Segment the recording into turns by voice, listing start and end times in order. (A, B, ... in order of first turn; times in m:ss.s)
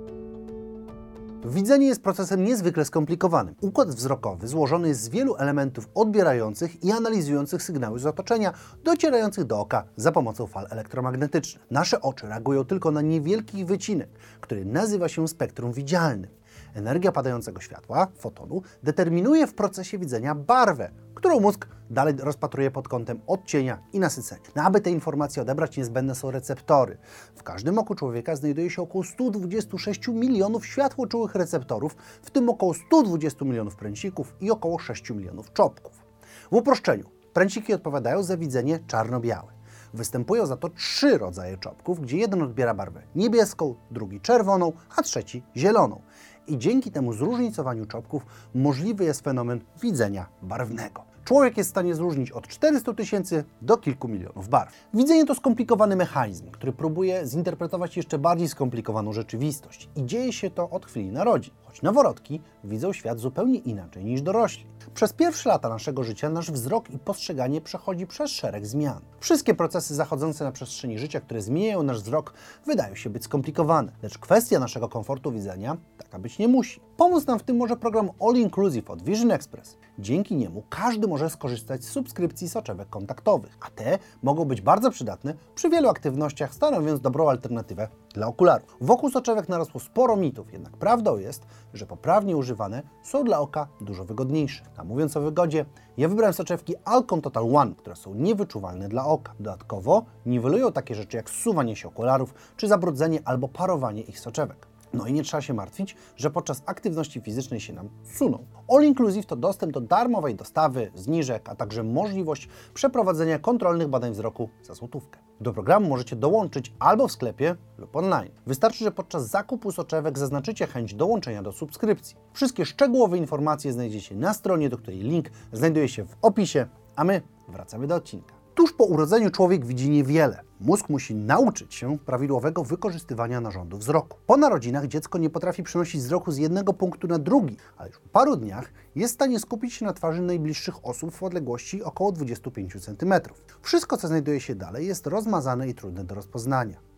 0:01.4-0:36.0 A
0:36.5-2:26.8 A